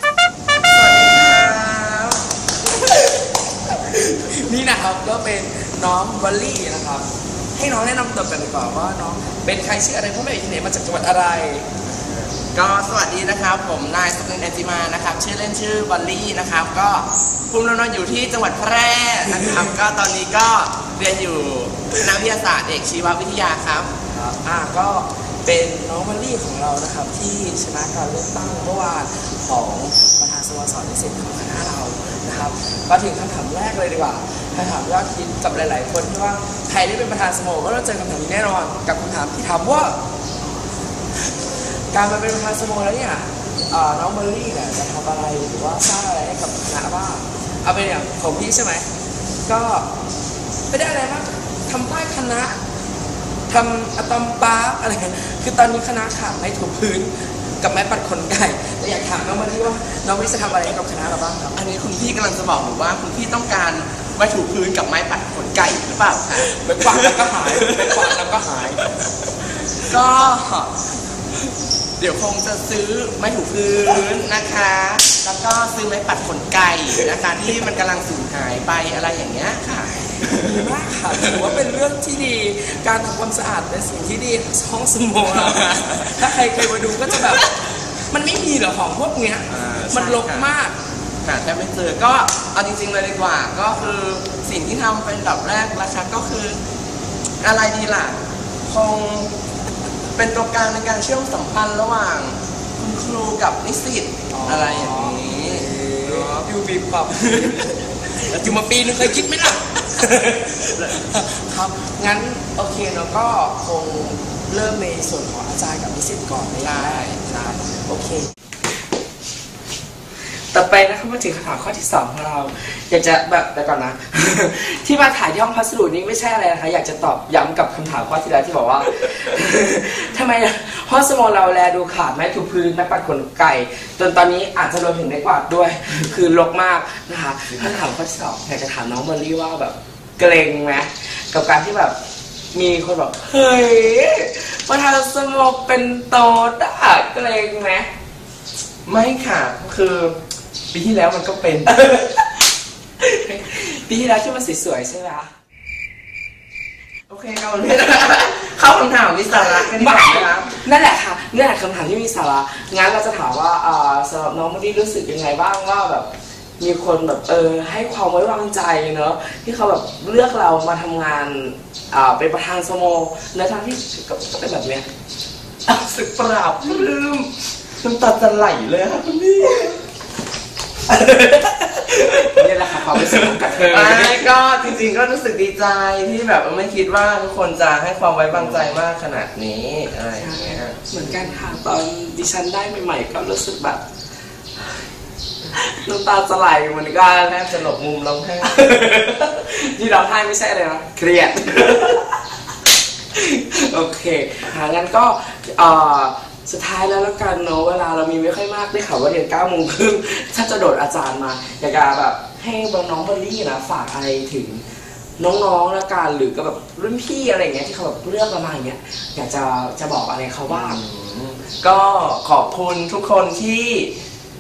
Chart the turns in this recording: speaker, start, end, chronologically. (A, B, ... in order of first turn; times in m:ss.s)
0:00.7-0:02.2 A
0:02.7-0:11.7 B
0:12.5-0:23.9 A
0:24.1-0:40.0 B
0:41.7-0:48.9 B
0:49.5-0:49.9 B
0:50.7-0:52.6 B
0:53.5-1:01.6 B
1:01.5-1:08.2 A
1:06.3-1:08.9 B
1:09.8-1:10.8 A
1:12.0-1:21.4 A
1:20.2-1:30.8 B
1:25.3-1:26.4 A
1:26.9-1:27.4 A
1:29.5-1:30.5 A
1:31.2-1:36.6 A
1:37.4-1:39.3 A
1:40.2-1:46.5 A
1:44.3-1:58.3 B
1:47.1-1:47.7 A
1:48.3-1:49.3 A
1:56.6-1:57.5 A
2:00.3-2:22.0 B
2:22.5-2:27.9 B
2:28.8-2:30.2 A
2:30.7-2:31.8 A
2:31.8-2:32.2 B
2:33.0-2:35.3 B
2:37.1-2:40.6 A
2:39.3-2:54.9 B
2:55.7-2:59.8 A
3:00.9-3:11.4 A
3:02.0-3:04.4 B
3:08.3-3:08.7 B
3:10.1-3:13.8 B
3:15.5-3:17.6 B
3:17.2-3:18.6 A
3:18.4-3:22.2 B
3:23.1-3:34.6 B
3:35.2-3:40.8 B
3:40.5-3:43.9 A